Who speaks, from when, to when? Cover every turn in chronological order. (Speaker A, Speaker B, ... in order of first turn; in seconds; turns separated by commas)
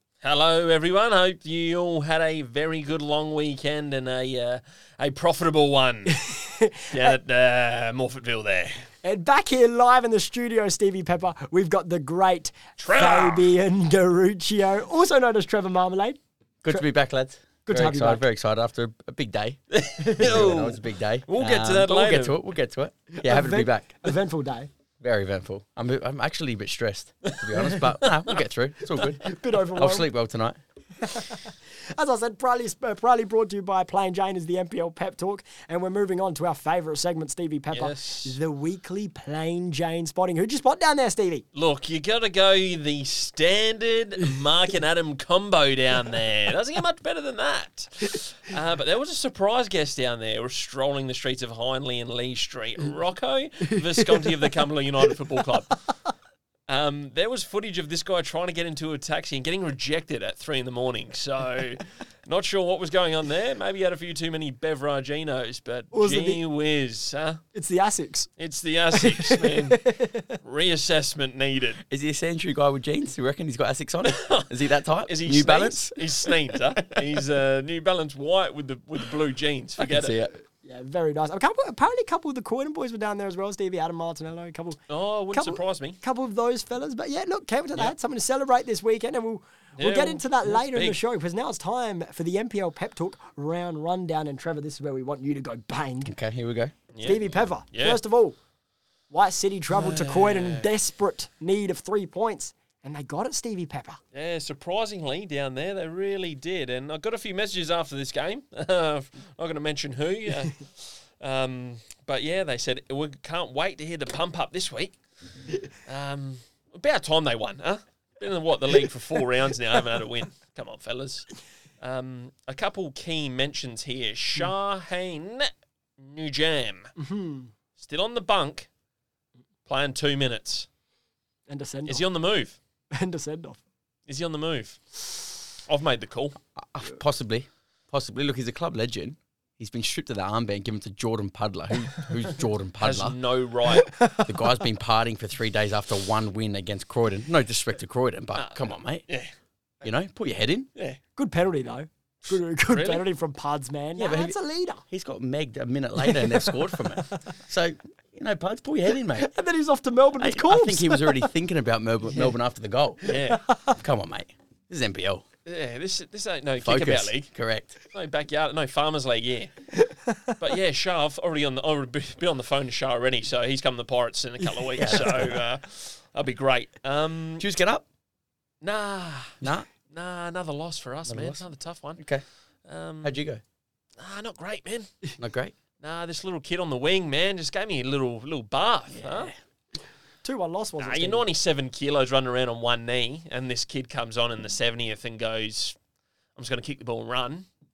Speaker A: 0.2-6.3, Speaker B: 6.1-7.1, Speaker A: 6.9-8.8, Speaker B: 9.0-16.2, Speaker A: 12.8-13.5, Speaker C: 16.6-23.9, Speaker B: 17.6-18.2, Speaker A: 19.7-22.4, Speaker B: 20.0-20.5, Speaker B: 23.1-24.7, Speaker C: 25.0-30.6, Speaker A: 27.2-28.4, Speaker B: 29.2-30.1, Speaker B: 31.0-41.4, Speaker A: 37.7-38.4, Speaker A: 41.5-55.8, Speaker A: 56.7-67.4, Speaker B: 65.9-66.4, Speaker B: 67.5-68.3, Speaker A: 68.4-69.9, Speaker B: 68.9-70.3, Speaker A: 70.4-71.8, Speaker C: 71.9-77.0, Speaker A: 74.0-80.2, Speaker C: 79.8-80.3, Speaker B: 80.6-84.8, Speaker A: 84.9-86.0, Speaker B: 85.3-96.1, Speaker A: 89.8-91.0, Speaker C: 96.0-96.7, Speaker A: 96.9-98.0, Speaker B: 97.0-98.3, Speaker B: 99.1-104.0, Speaker A: 99.7-100.7, Speaker A: 104.1-115.0, Speaker A: 115.8-121.3, Speaker A: 121.8-126.9, Speaker B: 127.0-127.5, Speaker A: 127.8-128.7, Speaker A: 129.7-130.7, Speaker B: 131.5-132.1, Speaker A: 131.9-132.6, Speaker B: 132.9-133.6, Speaker A: 134.1-136.4, Speaker C: 136.6-143.2, Speaker A: 142.8-143.9, Speaker B: 143.7-144.6, Speaker C: 144.2-149.0, Speaker A: 148.3-149.3, Speaker C: 149.8-150.7, Speaker B: 151.2-154.8, Speaker A: 152.7-153.0, Speaker C: 154.0-154.4, Speaker C: 154.9-159.3, Speaker B: 156.0-157.3, Speaker B: 159.2-161.3, Speaker C: 160.2-163.1, Speaker A: 163.1-163.4, Speaker B: 163.1-163.8, Speaker C: 163.7-165.2, Speaker A: 165.4-167.3, Speaker C: 166.6-167.8, Speaker A: 167.9-169.5, Speaker B: 169.7-170.4, Speaker A: 170.4-177.4, Speaker C: 174.8-175.4, Speaker B: 174.9-175.3, Speaker C: 177.4-177.8, Speaker A: 178.6-182.0, Speaker C: 179.4-179.7, Speaker C: 181.1-181.4, Speaker C: 182.0-182.2, Speaker A: 182.7-183.2, Speaker C: 183.0-183.4, Speaker A: 184.0-184.9, Speaker C: 185.2-185.5, Speaker A: 185.8-189.3, Speaker C: 188.9-189.3, Speaker B: 190.2-191.2, Speaker A: 190.8-195.8, Speaker A: 196.3-197.4